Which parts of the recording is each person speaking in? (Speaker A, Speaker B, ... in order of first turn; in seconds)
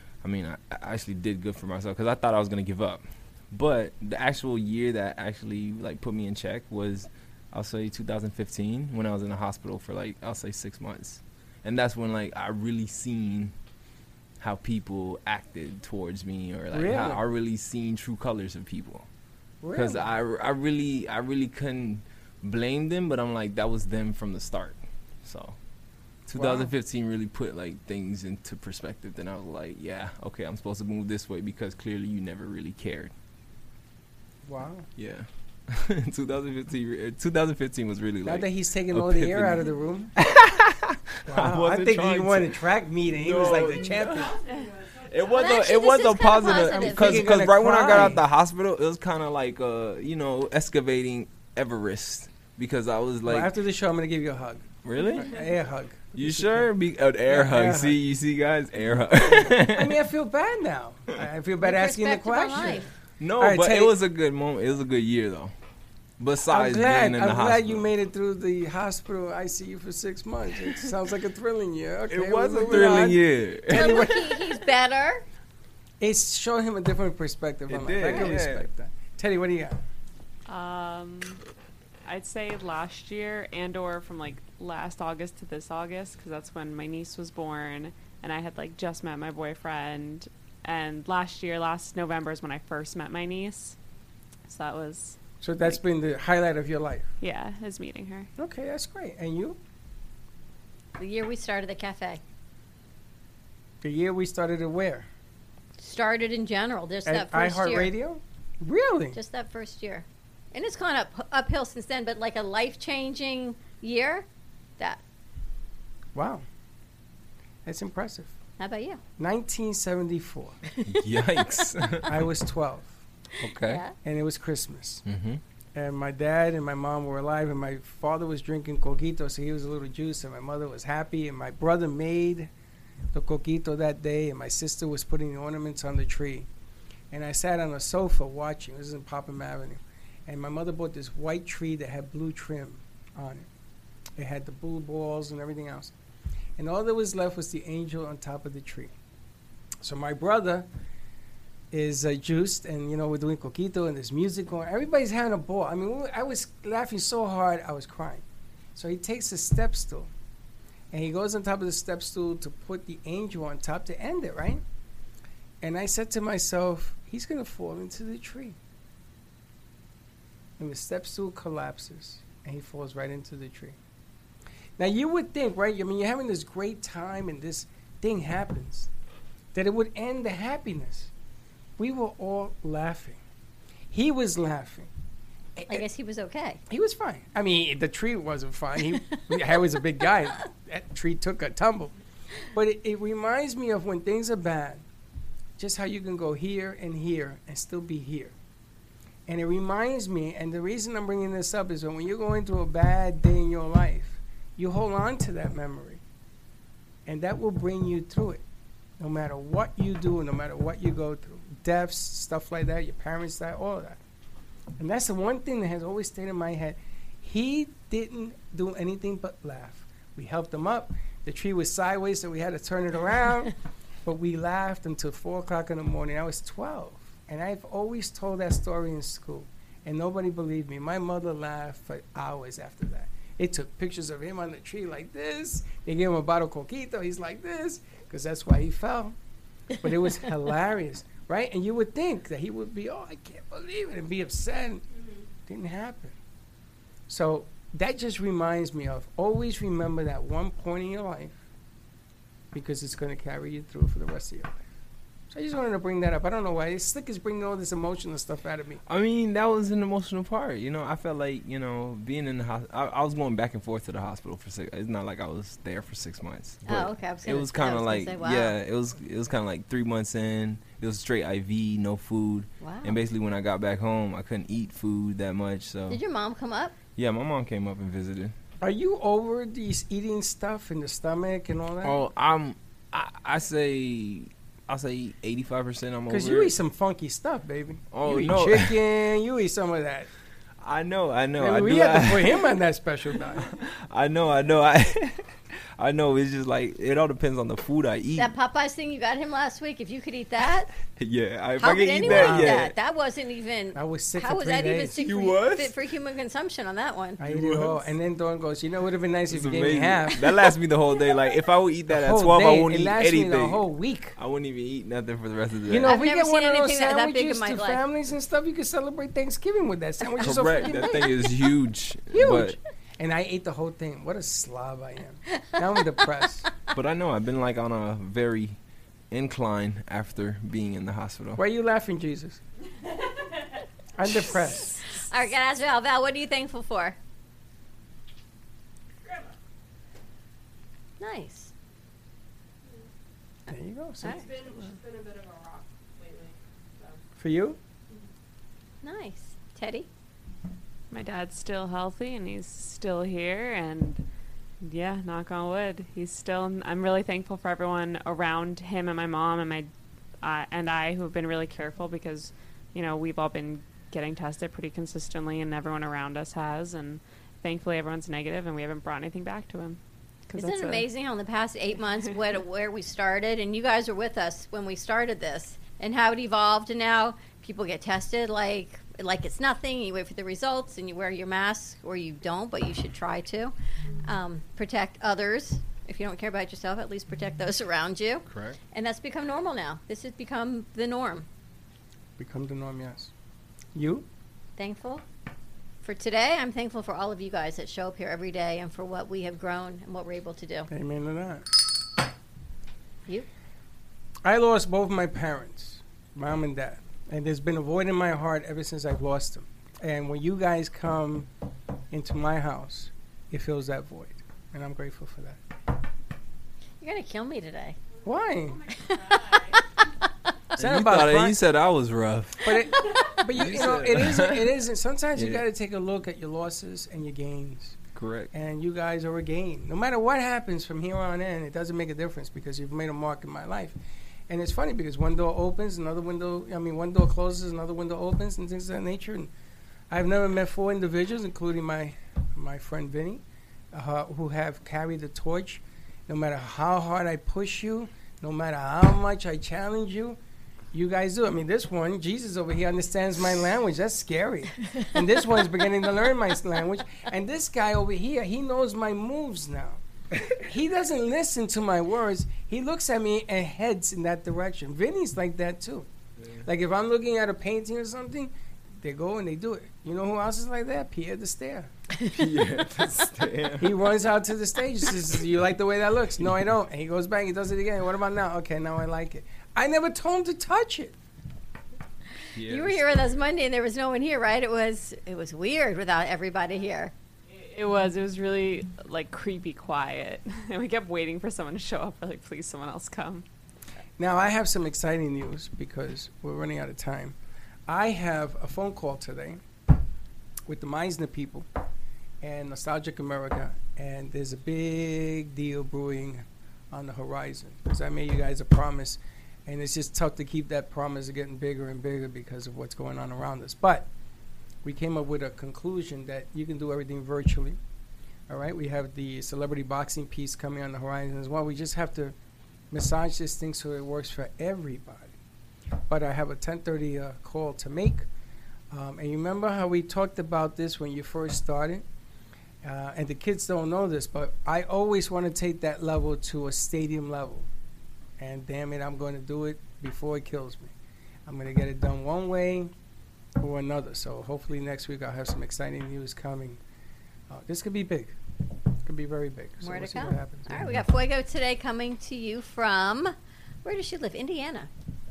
Speaker A: 0.2-13.5, 14.4-19.1, 19.7-25.6, 26.3-33.1, 35.0-39.6, 40.2-44.4, 45.1-53.5, 54.8-55.4, 56.1-59.9, 63.2-65.5, 66.2-67.8, 72.1-74.0, 77.7-78.6, 120.8-122.2, 123.4-123.8, 125.0-125.4, 258.9-276.0, 276.9-278.3, 281.8-286.5, 287.9-288.8, 290.6-292.5, 293.3-298.3, 301.0-302.7, 304.9-305.7, 307.2-307.8, 309.3-313.6, 314.2-316.0, 320.2-322.6, 326.7-328.6, 329.1-331.4, 388.3-388.6, 420.6-422.5, 423.3-424.5, 425.1-425.4, 427.9-428.3, 472.1-473.8, 482.3-483.0
Speaker B: 16.7-17.2, 19.6-20.1, 26.3-26.7, 34.4-34.9, 38.2-40.1, 41.2-44.4, 46.5-48.2, 53.2-56.7, 57.3-58.0, 59.2-64.0, 66.5-74.4, 76.0-79.8, 95.4-97.1, 98.4-99.6, 103.8-105.1, 107.0-109.2, 116.1-116.4, 117.6-118.3, 119.2-120.6, 122.0-123.0, 124.0-125.0, 125.7-132.5, 133.1-136.5, 137.1-143.5, 144.2-145.9, 146.6-148.9, 149.8-150.7, 151.7-158.2, 158.7-160.1, 160.9-164.6, 165.6-168.6, 170.6-173.8, 174.8-178.9, 179.5-181.1, 181.8-183.2, 183.9-184.9, 185.6-185.8, 186.7-191.9, 192.5-194.8, 195.6-198.3, 199.3-206.0, 207.1-208.4, 209.0-214.0, 214.8-239.2, 239.8-244.8, 245.5-246.2, 247.1-251.4, 252.5-254.6, 255.3-258.8, 278.6-282.0, 286.1-290.1, 291.4-293.5, 302.0-302.6, 303.7-305.0, 307.2-310.5, 311.9-314.1, 315.7-321.1, 322.1-326.5, 331.4-332.4, 334.0-334.8, 343.5-344.7, 347.2-347.6, 392.2-393.1, 393.7-394.1, 400.7-401.5, 404.2-411.3, 411.9-415.4, 418.0-418.6, 420.6-421.4, 422.4-427.8, 428.3-433.8, 434.3-439.3, 439.9-450.2, 450.7-465.9, 466.4-471.7, 473.6-480.9, 494.0-499.4, 500.5-501.5, 502.2-513.9, 514.6-517.6, 518.3-522.1, 522.7-525.1, 525.9-528.1, 528.7-531.8, 532.6-537.5, 538.2-540.7, 541.2-542.7, 543.4-546.6, 547.3-548.2, 548.8-550.7
Speaker C: 44.0-45.6, 333.0-333.6, 339.0-339.3, 344.0-347.0, 418.0-419.6, 422.8-423.1
Speaker D: 45.3-47.3, 61.6-62.9, 73.7-75.2, 101.0-102.2, 105.8-107.9, 109.1-114.3, 118.6-119.0, 120.7-121.0, 123.4-123.9, 185.7-186.6, 266.7-268.6, 272.6-272.9, 275.9-276.8, 298.2-300.7, 301.6-307.2, 315.8-317.8, 334.9-336.9, 341.0-341.5, 348.8-349.9, 370.4-391.3, 394.6-395.0, 395.8-400.7, 416.8-417.8, 482.5-486.9, 549.6-554.7
Speaker E: 80.5-81.4, 82.0-93.8, 94.5-95.8, 97.2-98.3, 350.9-354.0, 354.6-359.7, 360.2-370.9, 487.3-493.2